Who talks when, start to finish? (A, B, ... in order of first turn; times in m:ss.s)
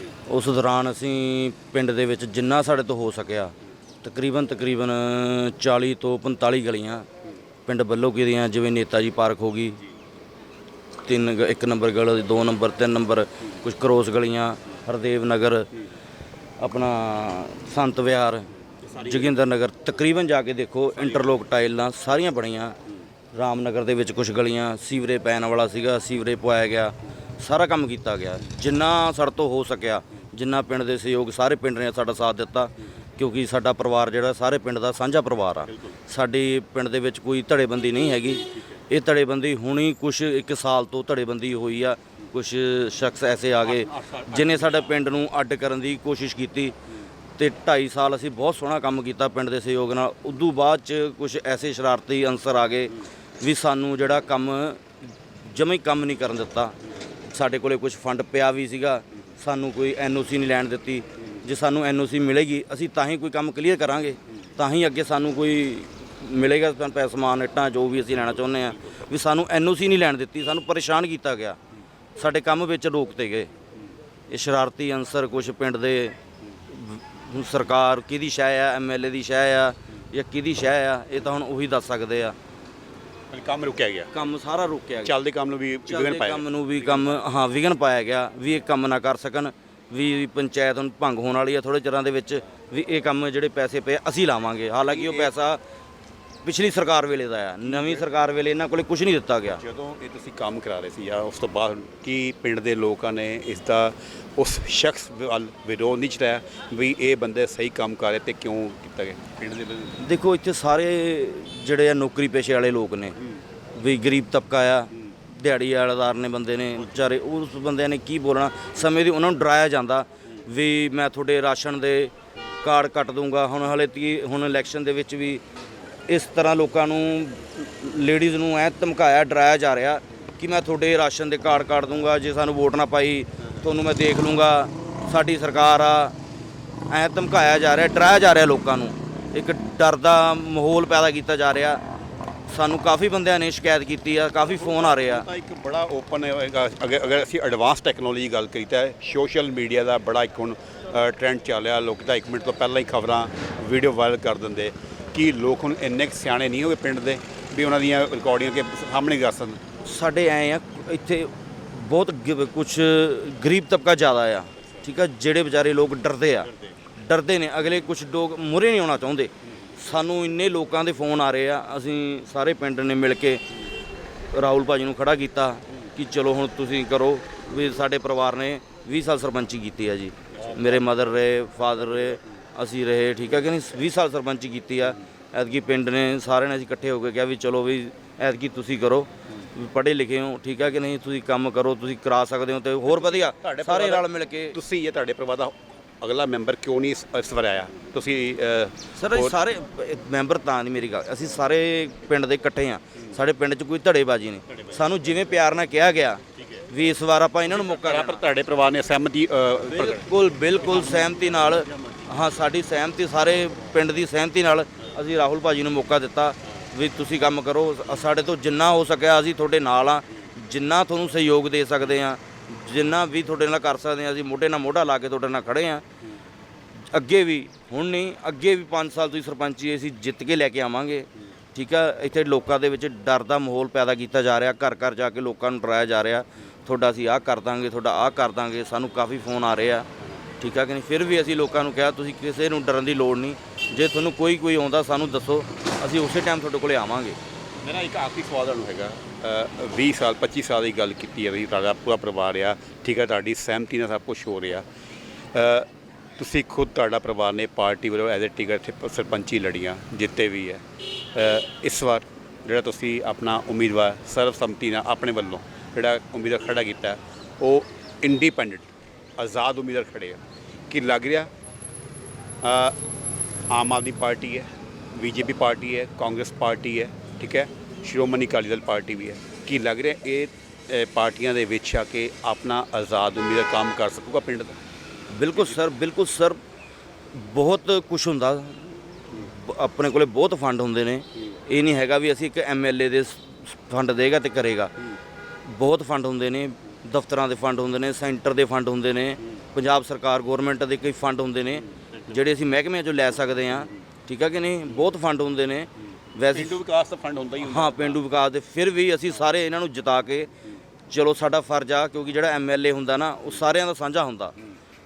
0:00.2-0:07.1 A
0:07.6-0:09.8 A
0:11.0-0:15.7 A
0:16.6-0:22.8 A
0:18.8-0:19.3 B
0:23.3-0:46.8 A
0:35.7-0:36.0 B
0:43.6-0:45.0 B
0:47.4-0:54.8 A
0:55.4-1:11.6 A
1:12.2-1:13.5 A
1:14.3-1:16.2 A
1:16.7-1:22.4 A
1:23.3-1:24.1 B
1:24.1-1:25.1 A
1:25.0-1:27.1 B
1:25.9-1:35.6 A
1:34.8-1:35.3 B
1:36.4-1:39.6 A
1:37.6-1:38.1 B
1:39.5-1:50.0 B
1:50.0-1:53.1 A
1:53.8-2:05.4 A
2:06.1-2:16.1 A
2:16.9-2:21.8 A
2:22.5-2:25.2 A
2:24.4-2:39.6 B
2:39.8-2:53.4 A
2:54.3-3:14.6 A
3:00.4-3:00.8 B
3:12.9-3:19.4 B
3:19.0-3:28.2 A
3:24.5-3:25.1 B
3:26.4-3:26.6 B
3:27.4-3:32.0 B
3:29.7-3:45.8 A
3:46.9-3:59.9 A
4:00.4-4:07.2 A
4:07.6-4:14.6 B
4:15.3-4:31.3 B
4:32.4-4:32.8 B
4:33.5-4:44.6 B
4:45.1-4:46.4 A
4:47.1-4:54.7 A
4:55.4-5:06.6 A
5:01.6-5:02.2 B
5:06.3-5:08.0 B
5:07.4-5:10.3 A
5:10.9-5:14.3 A